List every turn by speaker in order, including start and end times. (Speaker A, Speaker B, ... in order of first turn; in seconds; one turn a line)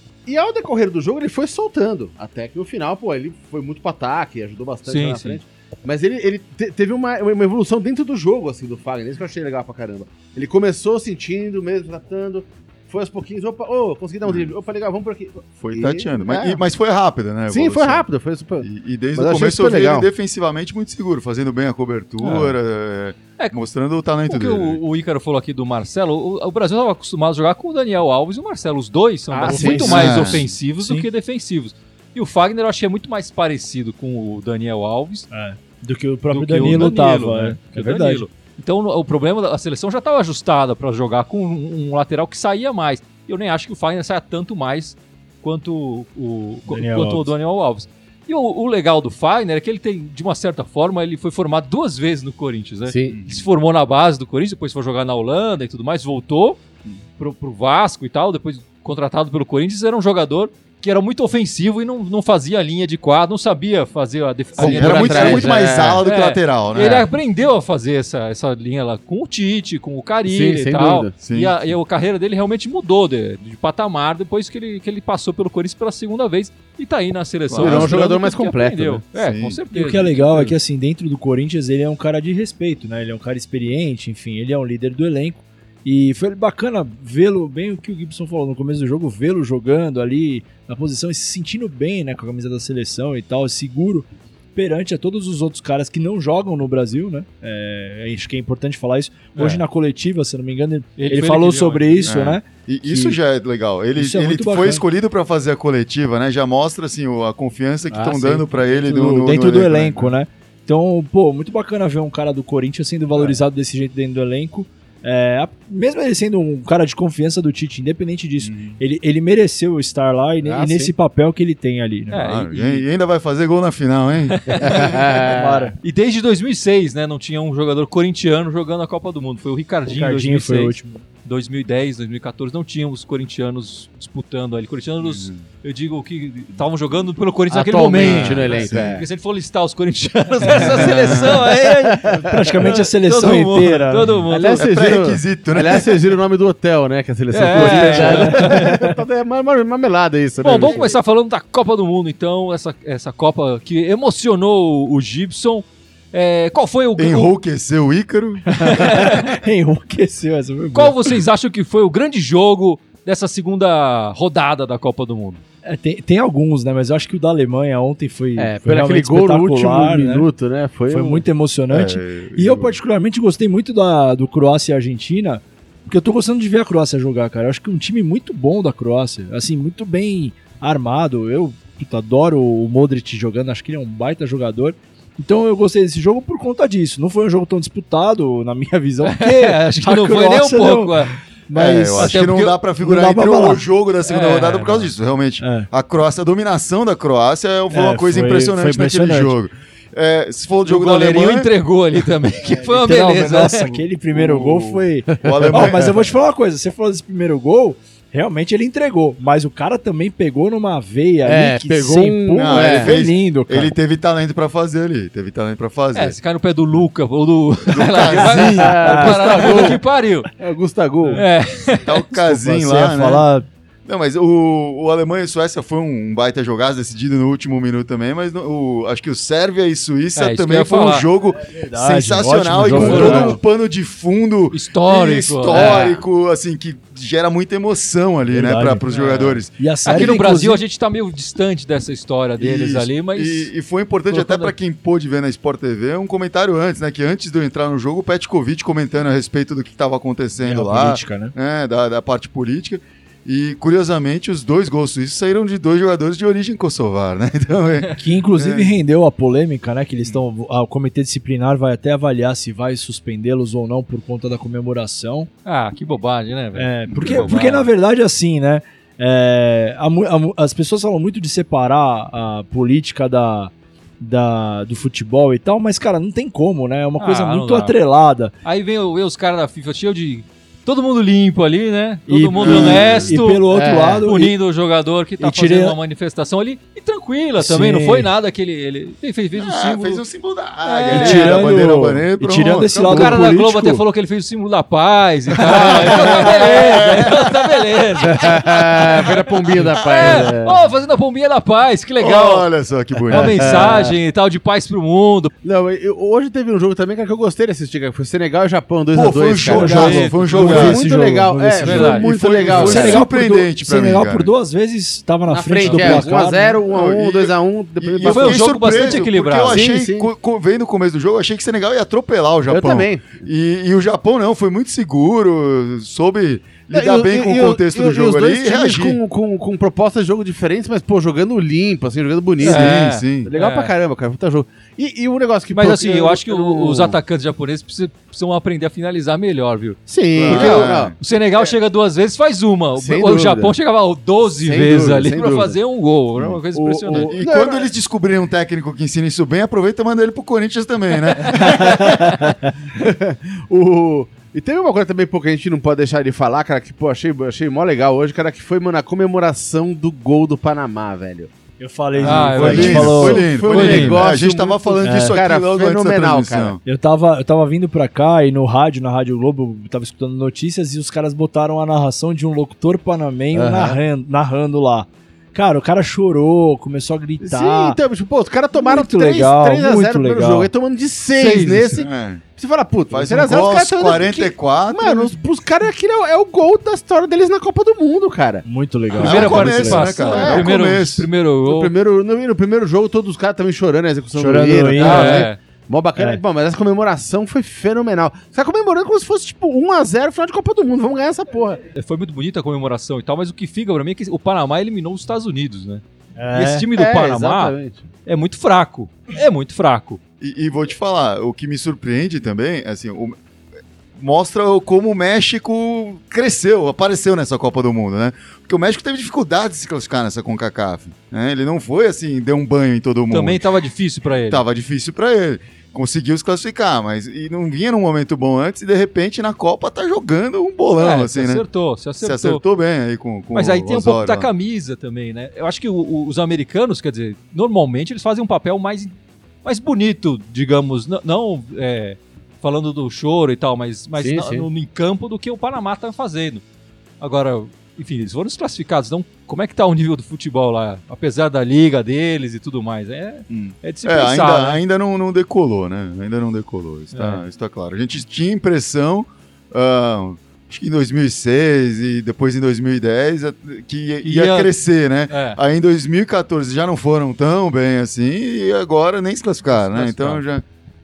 Speaker A: 0.3-16.6
Speaker B: 4.9-5.4
Speaker C: 14.2-14.5
Speaker C: 15.6-18.1
Speaker A: 17.5-20.1
Speaker C: 18.6-24.8
Speaker B: 24.2-35.3
Speaker A: 29.3-30.4
Speaker D: 29.4-30.2
Speaker C: 29.8-30.5
Speaker D: 30.8-31.1
Speaker D: 35.3-38.2
Speaker B: 36.3-56.6
Speaker D: 46.7-47.3
Speaker A: 52.9-53.2
Speaker C: 53.1-53.4
Speaker B: 57.2-80.5
Speaker A: 64.6-66.0
Speaker C: 64.6-67.1
Speaker A: 70.3-71.1
Speaker C: 71.2-71.5
Speaker C: 77.5-78.1
Speaker A: 77.6-79.0
Speaker C: 79.2-79.6
Speaker D: 79.7-103.2
Speaker B: 99.4-99.6
Speaker B: 101.0-102.1
Speaker C: 102.1-110.2
Speaker D: 104.0-104.8
Speaker A: 107.9-108.5
Speaker D: 108.7-122.2
Speaker C: 118.4-118.8
Speaker A: 120.4-120.9
Speaker B: 122.1-122.8
Speaker C: 122.2-124.8
Speaker B: 124.3-125.0
Speaker A: 124.6-125.7
Speaker D: 125.3-125.8
Speaker B: 125.8-130.7
Speaker D: 129.9-131.0
Speaker B: 131.2-144.7
Speaker C: 135.0-135.4
Speaker A: 137.5-139.1
Speaker C: 138.0-139.1
Speaker C: 140.6-141.5
Speaker A: 140.8-142.2
Speaker D: 142.1-144.1
Speaker A: 144.3-151.0
Speaker C: 144.6-145.9
Speaker B: 147.3-148.9
Speaker D: 147.5-148.8
Speaker B: 150.4-157.3
Speaker C: 157.0-158.8
Speaker D: 158.5-161.2
Speaker B: 158.6-159.4
Speaker B: 160.7-165.4
Speaker D: 165.7-170.3
Speaker A: 168.4-171.2
Speaker D: 170.9-193.6
Speaker C: 171.7-172.8
Speaker B: 189.0-191.2
Speaker C: 191.5-201.5
Speaker B: 191.7-192.6
Speaker B: 194.1-194.9
Speaker D: 195.4-195.7
Speaker D: 197.7-199.4
Speaker B: 200.7-203.8
Speaker D: 202.4-213.7
Speaker C: 204.1-206.0
Speaker A: 205.2-205.9
Speaker A: 211.2-213.0
Speaker C: 212.4-216.2
Speaker B: 215.9-220.3
Speaker C: 217.7-218.8
Speaker A: 218.5-219.8
Speaker D: 218.6-219.8
Speaker A: 220.4-221.2
Speaker B: 221.2-222.0
Speaker C: 221.8-223.2
Speaker D: 222.2-223.5
Speaker C: 223.9-240.2
Speaker B: 230.2-231.1
Speaker D: 231.5-233.4
Speaker B: 232.7-233.4
Speaker B: 234.5-236.0
Speaker A: 235.5-236.0
Speaker D: 238.3-238.8
Speaker B: 238.9-243.5
Speaker D: 239.6-240.6
Speaker C: 242.4-258.7
Speaker B: 244.1-244.5
Speaker D: 250.4-251.3
Speaker D: 258.0-265.3
Speaker B: 265.4-267.7
Speaker D: 266.6-278.3
Speaker C: 266.9-267.5
Speaker B: 277.0-277.8
Speaker B: 278.4-283.5
Speaker D: 282.1-284.4
Speaker C: 282.4-283.1
Speaker A: 283.5-284.1
Speaker B: 284.1-290.0
Speaker D: 285.2-285.8
Speaker D: 287.4-288.1
Speaker C: 289.4-293.2
Speaker B: 290.6-291.5
Speaker D: 290.9-293.8
Speaker B: 292.9-302.5
Speaker C: 295.4-297.6
Speaker A: 295.6-296.9
Speaker A: 298.0-300.6
Speaker C: 302.0-303.9
Speaker B: 303.1-305.3
Speaker A: 303.1-303.9
Speaker A: 305.4-313.1
Speaker C: 308.9-310.8
Speaker D: 309.4-316.6
Speaker B: 309.6-310.6
Speaker B: 311.6-312.1
Speaker C: 311.9-314.3
Speaker A: 315.3-320.1
Speaker C: 315.6-316.0
Speaker C: 316.7-329.0
Speaker B: 318.0-319.6
Speaker A: 322.5-323.2
Speaker A: 326.7-337.0
Speaker C: 332.4-333.3
Speaker B: 332.4-333.7
Speaker B: 335.5-347.2
Speaker A: 339.9-341.5
Speaker C: 340.1-340.9
Speaker A: 342.8-343.5
Speaker A: 344.4-345.6
Speaker A: 346.5-347.7
Speaker C: 346.9-352.0
Speaker B: 351.1-351.8
Speaker A: 351.4-352.1
Speaker A: 352.7-361.3
Speaker D: 361.6-363.3
Speaker C: 362.0-366.6
Speaker B: 362.0-364.2
Speaker A: 362.0-366.6
Speaker D: 364.8-365.1
Speaker D: 366.6-377.8
Speaker A: 373.3-373.8
Speaker A: 377.2-388.5
Speaker D: 378.6-380.5
Speaker B: 381.1-381.9
Speaker C: 381.8-382.2
Speaker C: 382.9-385.1
Speaker D: 388.4-389.8
Speaker C: 389.0-391.1
Speaker B: 389.0-391.7
Speaker A: 389.8-390.5
Speaker A: 391.4-401.6
Speaker D: 394.1-395.3
Speaker B: 394.8-395.4
Speaker B: 401.8-405.8
Speaker D: 406.2-406.7
Speaker B: 406.3-410.0
Speaker A: 406.7-407.9
Speaker C: 410.2-413.2
Speaker C: 414.0-423.4
Speaker B: 423.1-424.4
Speaker C: 424.3-431.4
Speaker B: 430.8-432.4
Speaker C: 432.0-434.3
Speaker B: 433.3-438.9
Speaker B: 439.4-446.4
Speaker A: 444.0-444.5
Speaker B: 447.0-454.6
Speaker C: 453.3-470.4
Speaker B: 456.9-457.2
Speaker B: 464.0-464.5
Speaker B: 465.1-465.4
Speaker B: 469.6-470.2